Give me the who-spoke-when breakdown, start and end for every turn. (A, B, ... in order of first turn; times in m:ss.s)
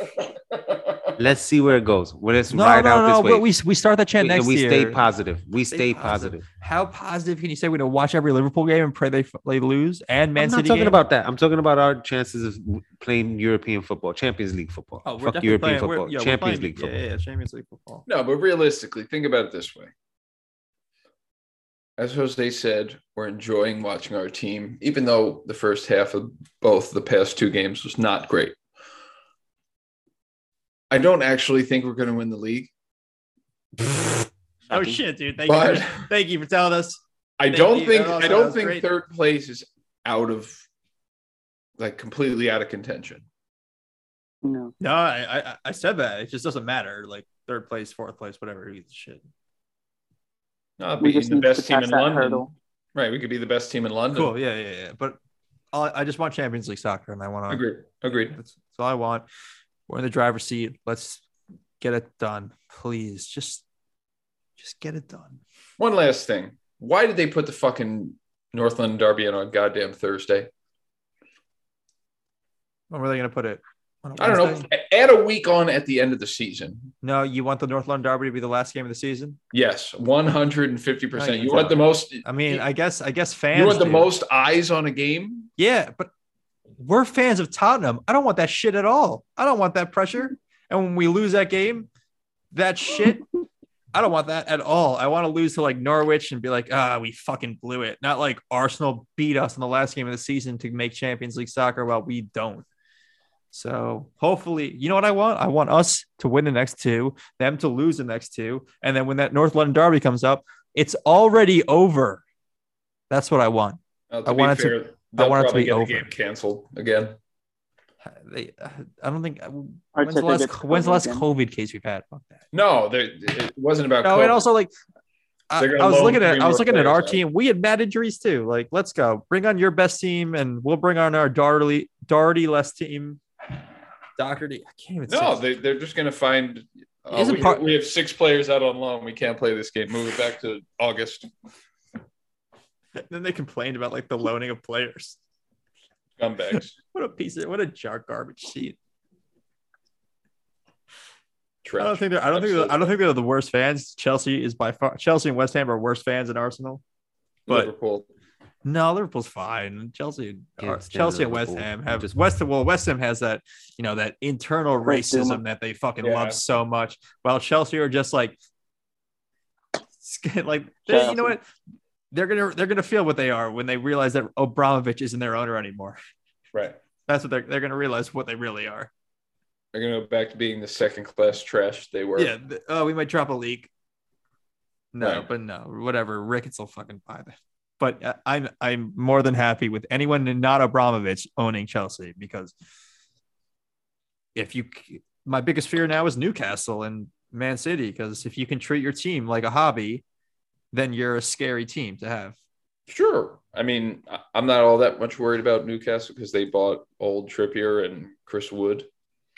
0:00.5-0:01.1 A
0:01.2-0:03.4 B
0:02.5-0:05.0 C
0:04.2-0:06.4 B
0:05.7-0:11.0 C
0:10.4-0:16.9 B
0:15.0-0:18.0 C
0:18.1-0:19.9 A
0:22.0-0:28.6 A
0:30.9-0:32.7 A
0:34.7-0:35.0 B
0:34.7-0:38.8 C
0:35.5-0:36.1 A
0:37.4-0:40.6 A
0:41.8-0:43.2 A
0:44.4-0:44.7 D
0:44.8-0:49.2 C
0:50.8-0:52.4 A
0:51.0-0:52.5 D
0:52.9-0:54.3 A
0:54.1-0:55.2 C
0:55.7-0:57.6 C
0:57.5-0:58.3 A
0:58.3-0:59.2 C
0:59.9-1:01.2 C
1:01.8-1:03.6 C
1:04.6-1:05.4 C
1:05.8-1:10.5 A
1:12.9-1:14.7 C
1:14.2-1:16.9 A
1:17.0-1:19.4 C
1:19.5-1:22.6 A
1:21.1-1:24.1 C
1:23.5-1:25.5 A
1:25.6-1:26.1 C
1:26.8-1:31.9 C
1:32.5-1:33.3 C
1:33.9-1:42.6 C
1:43.5-1:52.2 C
1:53.1-1:56.1 C
1:54.1-1:57.2 A
1:58.0-2:02.4 C
2:00.0-2:01.2 D
2:02.5-2:04.4 A
2:04.0-2:04.7 C
2:05.5-2:13.2 C
2:05.6-2:07.2 A
2:14.2-2:15.4 C
2:15.1-2:21.3 A
2:17.1-2:17.6 C
2:23.0-2:25.2 C
2:26.2-2:26.7 A
2:26.5-2:28.8 C
2:31.6-2:32.9 A
2:31.8-2:36.8 C
2:37.5-2:38.1 A
2:38.6-2:48.4 C
2:40.6-2:42.2 B
2:44.8-2:45.4 D
2:46.0-2:46.4 A
2:50.0-2:51.4 C
2:50.9-2:51.3 D
2:52.1-2:56.0 C
2:57.1-2:58.9 C
2:59.7-3:02.3 A
3:02.2-3:03.7 C
3:04.9-3:12.5 C
3:05.0-3:05.3 A
3:14.3-3:20.0 C
3:20.7-3:22.4 C
3:22.9-3:28.9 A